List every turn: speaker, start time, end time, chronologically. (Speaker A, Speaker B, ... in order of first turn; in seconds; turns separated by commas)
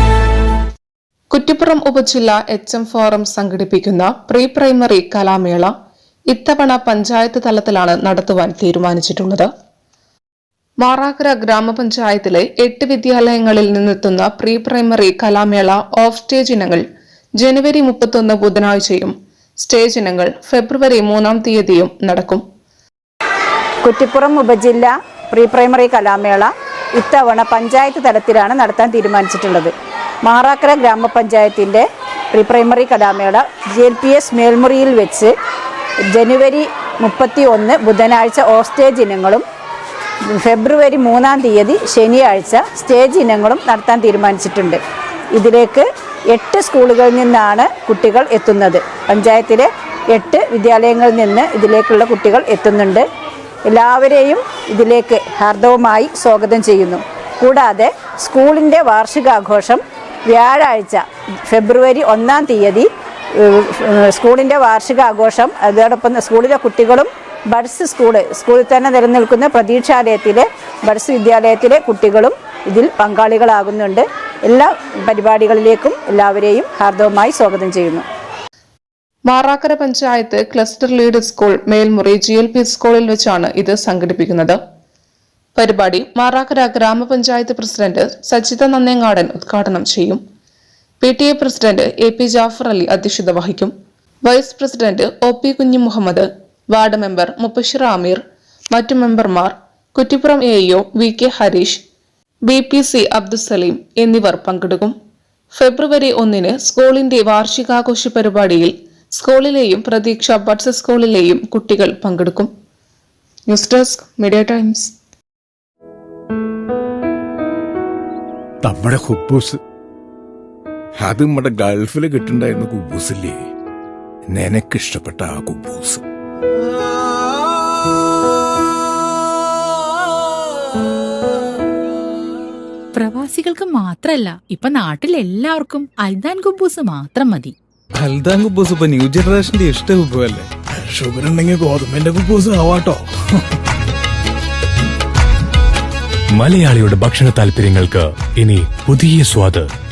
Speaker A: 1.3-5.7, Speaker A: 6.3-9.5, Speaker A: 10.8-16.8, Speaker A: 17.4-22.4, Speaker B: 23.8-29.7, Speaker B: 30.3-35.3, Speaker B: 36.1-39.5, Speaker B: 40.3-44.8, Speaker B: 45.3-53.1, Speaker B: 53.7-78.0, Speaker A: 79.3-84.6, Speaker A: 85.5-90.2, Speaker A: 91.0-93.7, Speaker A: 94.2-98.2, Speaker A: 98.7-101.8, Speaker A: 102.5-104.9, Speaker A: 105.5-112.5, Speaker A: 113.5-114.9, Speaker C: 118.6-119.6, Speaker C: 121.0-123.4, Speaker C: 124.3-126.0, Speaker D: 132.9-137.5, Speaker E: 138.0-140.5, Speaker C: 140.7-143.1, Speaker F: 146.3-149.7